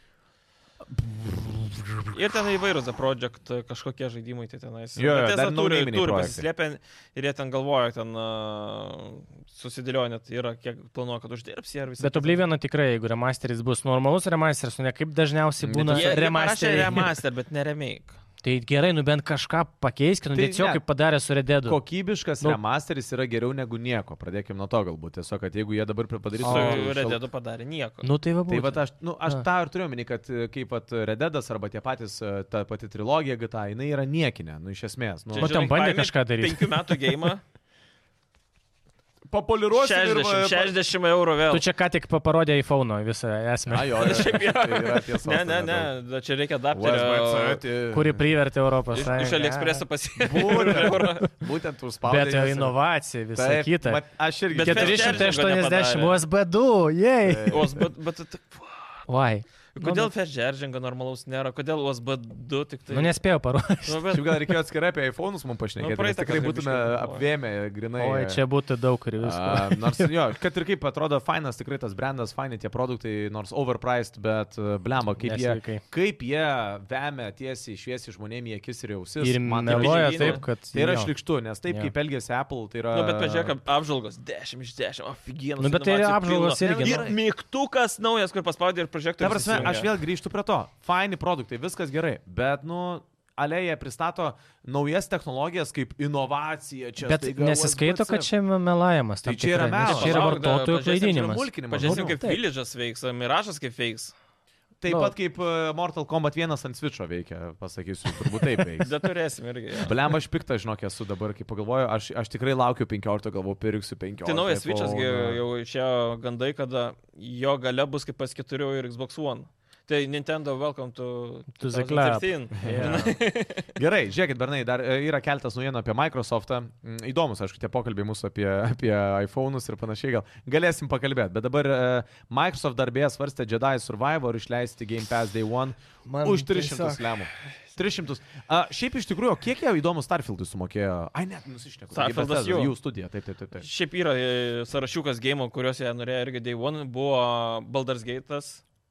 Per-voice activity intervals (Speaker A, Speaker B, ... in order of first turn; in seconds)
Speaker A: 0.9-2.1, 5.0-6.4, 15.6-16.2, 20.4-20.8, 21.6-27.2, 28.5-35.6, 39.3-40.8, 43.7-45.9, 46.7-48.2, 50.2-52.8, 53.3-55.4, 57.2-57.8, 64.1-68.4, 69.2-83.5, 86.6-87.2, 89.2-98.3, 99.2-102.2, 104.8-108.9, 109.8-115.4, 122.6-123.1, 123.8-143.7
Speaker B: 2.1-12.4, 15.9-18.2, 26.4-28.1, 35.3-37.4, 39.8-41.6, 44.0-47.6, 48.9-51.3, 54.6-56.2, 57.5-59.0, 59.7-63.2, 63.8-64.4, 65.8-67.2, 79.6-80.4, 82.9-89.9, 99.7-104.1, 108.8-110.0, 114.2-123.7, 141.9-142.7, 143.6-148.6
Speaker C: 12.0-17.1, 18.4-21.8, 26.4-26.9, 28.0-29.4, 35.4-36.8, 41.5-44.2, 47.9-49.8, 50.5-51.2, 52.0-57.7, 59.1-60.1, 62.9-64.1, 68.0-70.1, 75.2-75.8, 79.2-81.1, 85.6-87.1, 97.0-102.4, 104.9-105.1, 121.5-123.2, 136.1-137.2